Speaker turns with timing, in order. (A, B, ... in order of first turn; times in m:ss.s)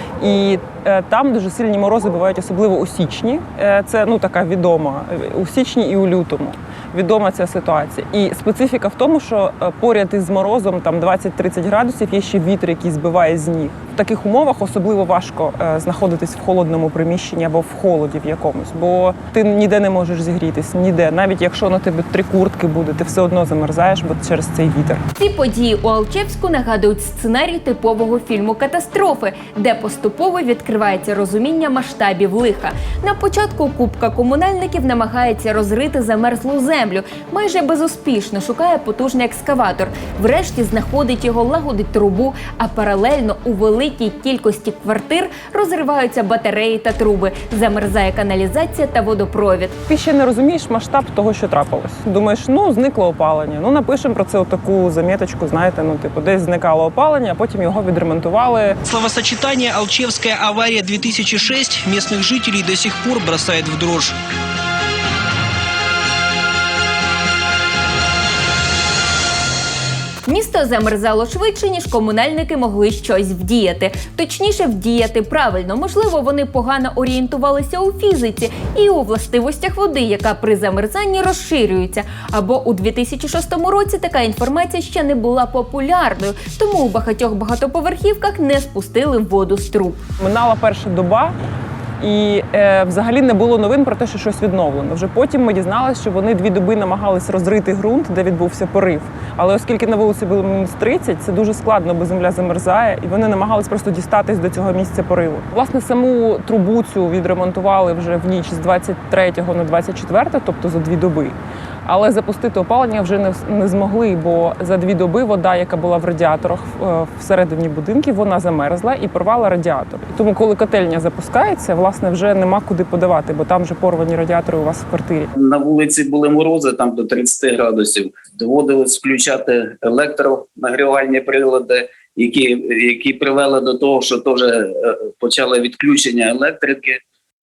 0:00.2-0:25.0 A
0:25.2-0:49.8 B
0:49.9-0:58.8 A
0:58.9-1:04.1 C
1:10.2-1:30.0 B
1:30.2-1:31.3 A
1:32.0-2:05.3 A
2:05.3-2:17.0 D